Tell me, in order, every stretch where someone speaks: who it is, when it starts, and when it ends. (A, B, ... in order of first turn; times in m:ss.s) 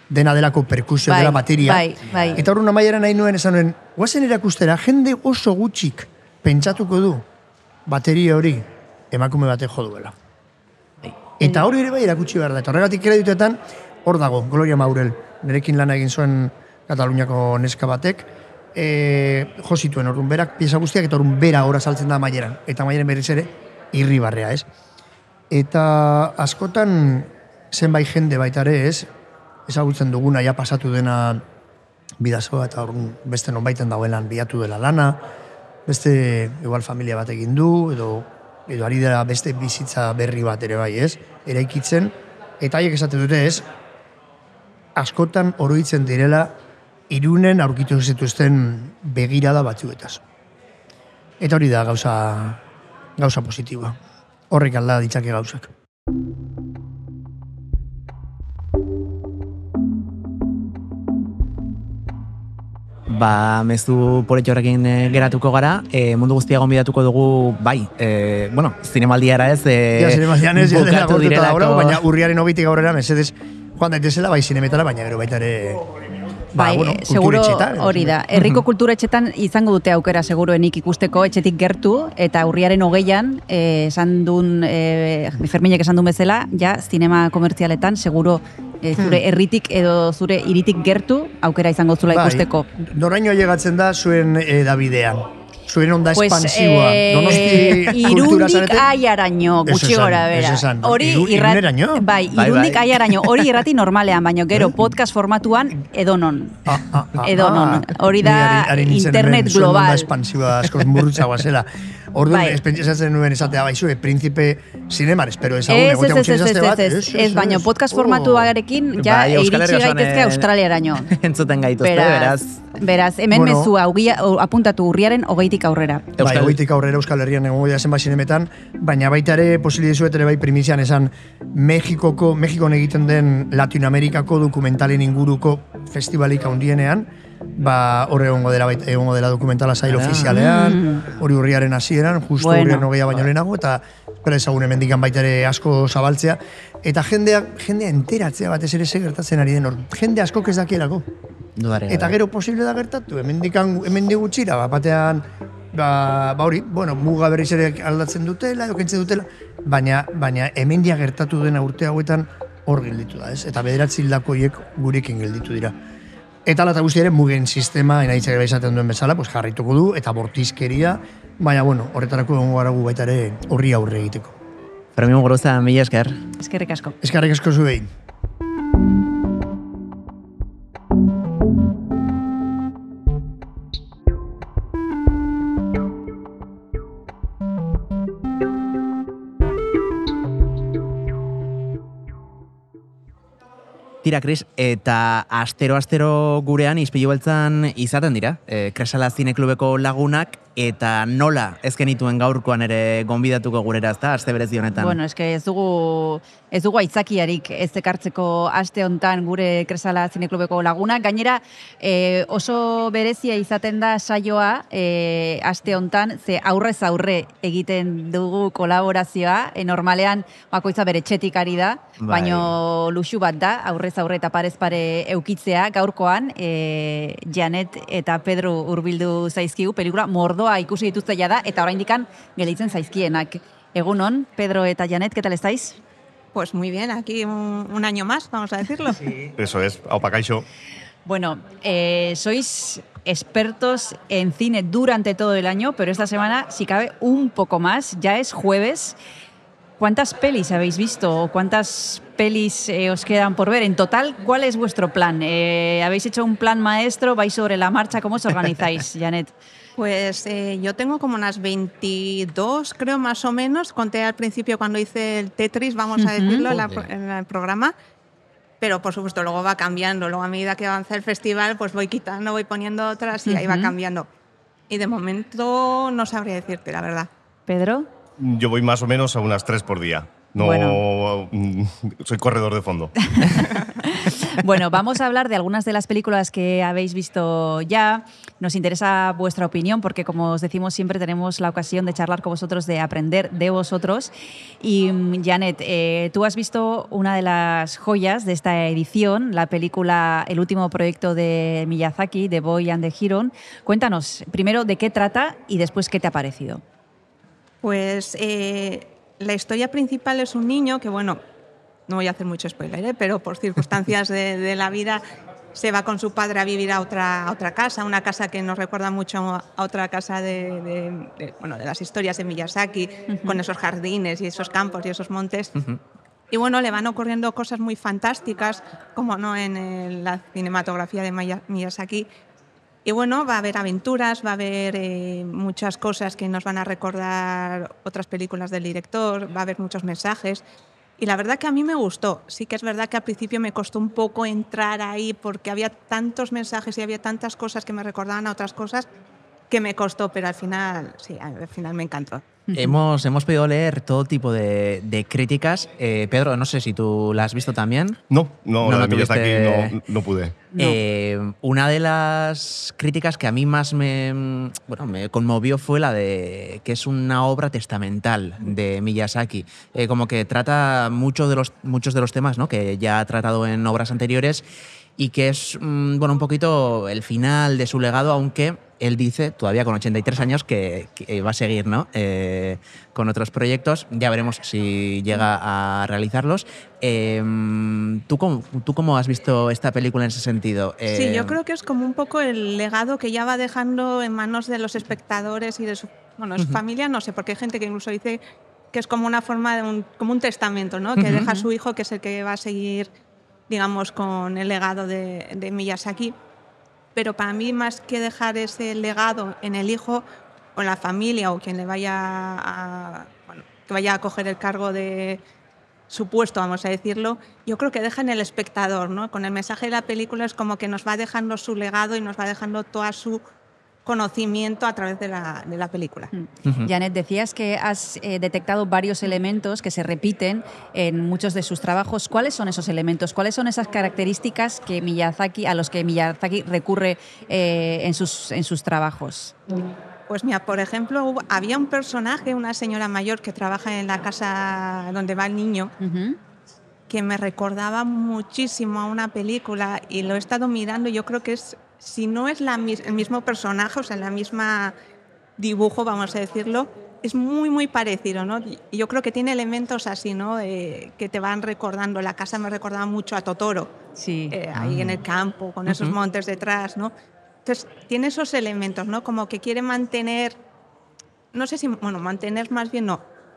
0:00.1-0:07.2 A
0:01.1-0:02.4 B
0:07.9-0:10.2 A
0:11.4-0:24.7 A
0:25.5-0:29.1 A
0:29.7-0:31.4 A
0:32.2-0:35.2 A
0:35.9-0:43.6 A
0:45.0-0:46.5 A
0:47.1-0:50.2 A
0:51.4-0:52.6 A
0:53.2-0:54.0 A
0:54.5-0:55.7 A
1:03.1-1:12.0 C
1:10.0-1:15.8 A
1:16.5-1:18.2 A
1:16.6-1:32.7 B
1:18.3-1:18.6 C
1:29.0-1:29.2 A
1:32.1-1:38.9 A
1:36.1-1:50.1 B
1:39.6-1:42.0 A
1:42.3-1:43.5 C
1:46.7-1:58.5 A
1:52.3-1:52.6 B
1:55.7-2:01.1 B
1:59.0-2:00.5 C
2:01.1-2:02.6 C
2:01.8-2:06.2 B
2:03.3-2:03.7 A
2:06.2-2:06.6 C
2:06.2-2:31.1 A
2:19.9-2:20.3 C
2:20.2-2:21.1 B
2:22.4-2:22.9 B
2:31.6-2:32.2 C
2:31.9-2:45.8 A
2:46.5-2:54.4 A
2:55.0-2:56.2 C
2:56.4-2:57.0 B
2:57.0-2:57.9 A
3:14.0-3:25.0 C
3:24.8-3:55.8 B
3:42.0-3:42.5 C
3:56.3-3:59.1 D
3:59.4-4:00.5 E
4:01.0-4:09.0 B
4:09.8-4:19.3 B
4:19.8-4:27.7 D
4:26.0-4:26.5 B
4:26.5-4:26.9 C
4:28.6-4:34.1 D
4:33.3-4:33.7 B
4:34.7-4:37.1 D
4:37.5-4:37.9 B
4:38.2-4:43.5 E
4:40.4-4:40.8 B
4:43.1-5:06.6 B
5:07.6-5:11.2 D
5:11.9-5:15.0 D
5:15.5-5:25.5 D
5:23.1-5:23.4 B
5:26.3-5:32.1 D
5:32.8-5:40.4 D
5:41.0-5:48.9 D
5:49.5-5:52.3 D
5:52.5-5:52.8 B
5:52.5-5:58.0 C
5:58.1-6:00.4 E
5:58.6-5:59.8 C
6:00.5-6:00.8 B
6:00.6-6:14.4 C
6:15.0-6:31.4 C
6:30.9-6:38.2 D
6:38.7-6:42.9 D
6:41.0-6:41.3 C
6:41.1-6:41.4 B
6:43.5-6:46.2 D
6:47.0-6:50.0 D
6:50.6-6:55.2 D
6:55.9-7:03.2 D
7:03.8-7:06.1 D
7:06.1-7:19.4 B
7:20.1-7:25.7 D
7:25.8-7:26.2 B
7:26.9-7:34.8 D
7:35.4-7:43.7 D
7:44.0-7:44.4 B
7:44.3-7:46.9 D
7:44.6-7:45.0 C
7:45.7-7:45.9 C
7:47.4-7:50.4 D
7:51.3-7:53.0 D